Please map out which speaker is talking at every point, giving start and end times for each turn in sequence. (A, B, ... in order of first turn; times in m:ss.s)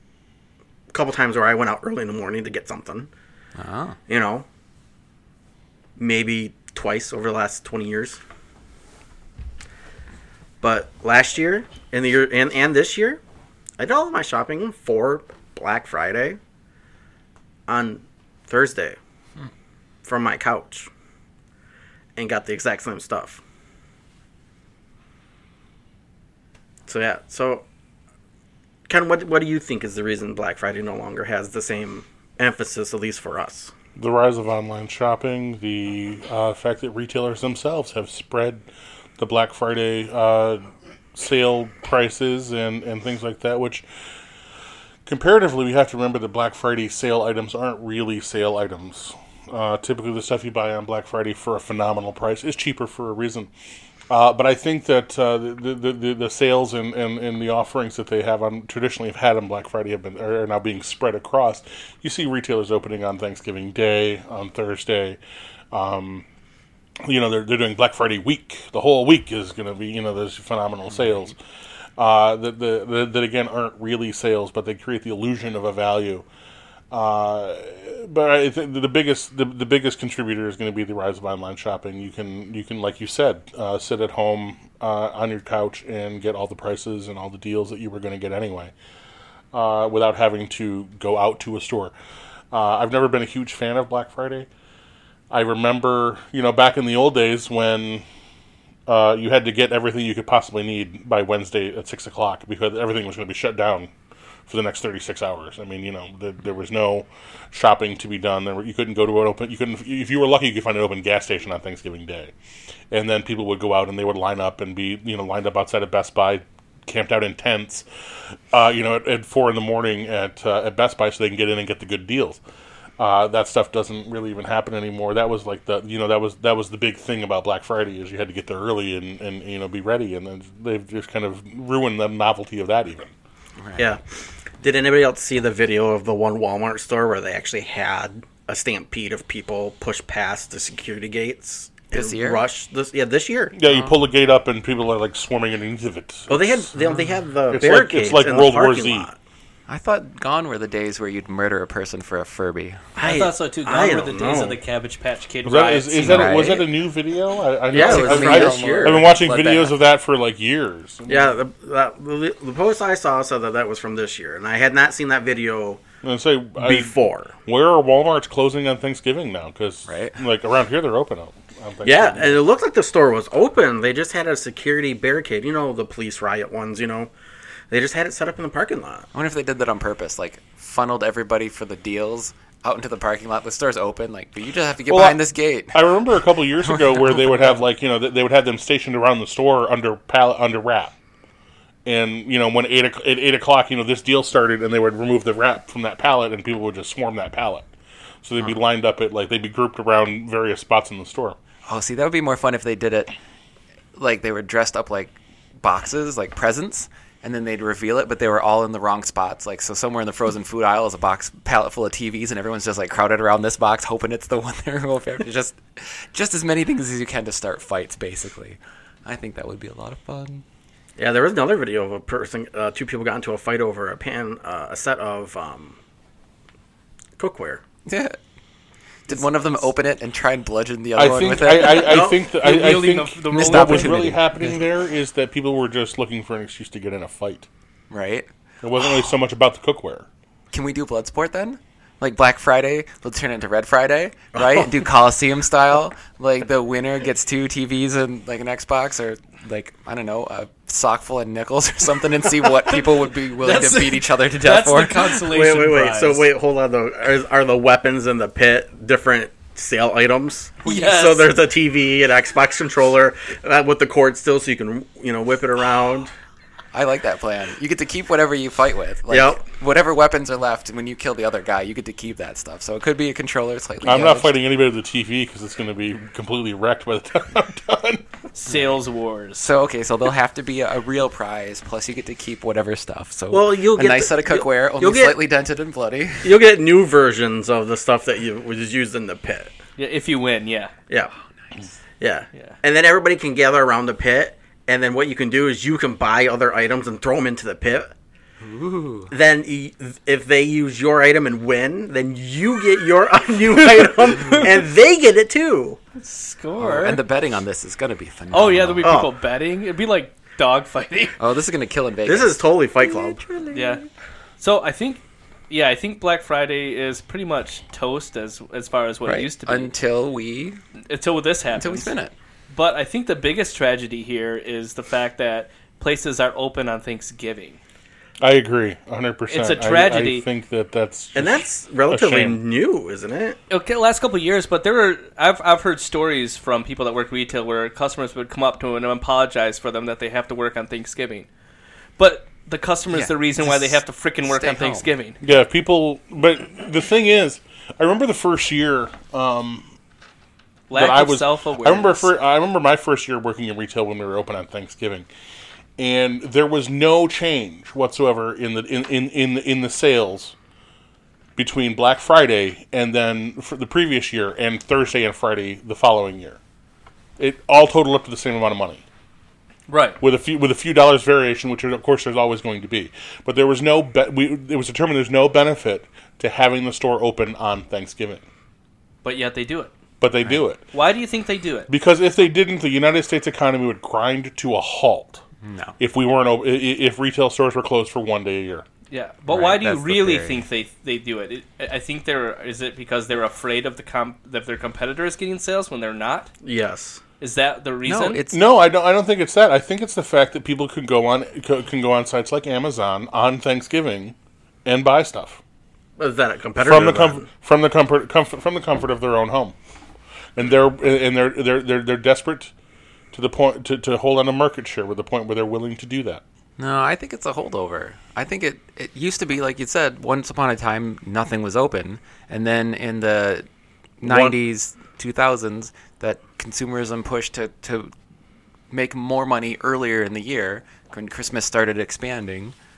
0:00.9-0:03.1 A
0:03.6-0:04.0 B
0:04.1-0:04.4 A
0:06.0-0:08.2 A
0:10.6-0:13.2 A
0:13.8-0:16.4 A
0:17.7-0:19.0 A
0:20.0-0:20.9 A
0:22.2-0:23.4 A
0:26.8-0:27.6 A
0:28.9-0:33.7 A
0:34.0-0:38.6 C
0:39.2-0:43.8 C
0:45.0-0:53.5 C
0:54.1-1:05.2 C
1:05.7-1:06.2 C
1:07.0-1:11.4 C
1:12.0-1:16.2 C
1:16.9-1:28.7 C
1:29.5-1:31.9 C
1:32.5-1:34.5 C
1:35.3-1:38.0 C
1:38.9-1:43.9 C
1:44.5-1:52.3 C
1:52.9-1:57.8 C
1:58.5-2:02.4 C
2:03.0-2:13.1 C
2:13.6-2:14.0 B
2:14.6-2:23.5 A
2:21.9-2:22.4 B
2:23.5-2:26.7 C
2:23.7-2:23.9 B
2:26.3-2:29.1 A
2:26.8-2:27.2 B
2:27.5-2:29.1 C
2:29.7-2:32.9 B
2:33.0-2:34.6 A
2:33.0-2:36.4 D
2:35.4-2:41.3 C
2:36.0-2:36.6 B
2:37.7-2:39.1 A
2:37.7-2:39.7 B
2:41.1-2:45.8 A
2:46.0-2:46.9 C
2:46.6-2:47.3 A
2:47.4-2:52.4 C
2:49.8-2:50.2 B
2:51.8-2:57.1 A
2:57.7-2:59.1 A
2:59.1-3:07.6 B
3:04.9-3:10.9 C
3:11.8-3:17.7 C
3:18.2-3:21.4 C
3:21.7-3:23.2 B
3:23.9-3:40.4 B
3:41.0-3:45.8 A
3:47.2-3:47.6 A
3:47.8-3:48.2 B
3:49.1-3:52.1 B
3:51.0-3:57.5 C
3:51.7-3:52.2 A
3:52.3-3:54.0 D
3:53.3-3:54.6 B
3:57.9-3:58.3 B
3:58.6-4:00.1 C
4:00.5-4:15.2 B
4:04.4-4:04.7 A
4:13.4-4:16.3 D
4:15.3-4:26.1 A
4:20.6-4:21.3 D
4:26.7-4:34.4 B
4:29.1-4:29.4 A
4:33.8-4:38.0 C
4:38.3-4:39.5 D
4:39.4-4:46.4 B
4:43.3-4:45.2 A
4:46.2-4:49.5 A
4:49.8-4:50.7 D
4:52.0-4:57.9 A
4:58.4-4:59.1 B
4:59.1-5:05.8 A
5:06.0-5:07.0 D
5:06.6-5:08.9 B
5:08.3-5:11.2 D
5:08.8-5:09.1 A
5:11.2-5:13.9 B
5:12.0-5:13.3 A
5:13.5-5:13.8 D
5:14.4-5:19.7 D
5:19.0-5:20.6 B
5:20.9-5:21.9 D
5:21.5-5:22.1 B
5:22.5-5:27.6 D
5:28.2-5:32.4 C
5:29.3-5:30.2 D
5:31.1-5:33.4 A
5:33.5-5:41.3 D
5:42.0-5:45.2 D
5:42.9-5:44.9 B
5:45.2-5:49.7 C
5:50.7-5:52.1 D
5:50.7-5:55.1 C
5:55.8-6:00.3 C
6:01.4-6:06.4 C
6:07.2-6:08.8 C
6:09.7-6:10.0 D
6:10.0-6:18.2 C
6:19.0-6:19.7 D
6:20.0-6:20.6 C
6:20.7-6:21.7 D
6:21.7-6:25.2 C
6:25.4-6:25.8 B
6:25.8-6:28.6 C
6:28.9-6:36.3 D
6:29.3-6:30.4 B
6:36.4-6:37.0 A
6:37.2-6:38.2 D
6:37.8-6:38.4 B
6:38.3-6:45.4 C
6:46.0-6:47.3 A
6:46.6-6:49.5 C
6:50.4-6:52.5 C
6:53.1-6:56.2 C
6:56.6-7:03.4 B
7:04.0-7:07.9 B
7:04.0-7:04.3 C
7:08.7-7:12.5 B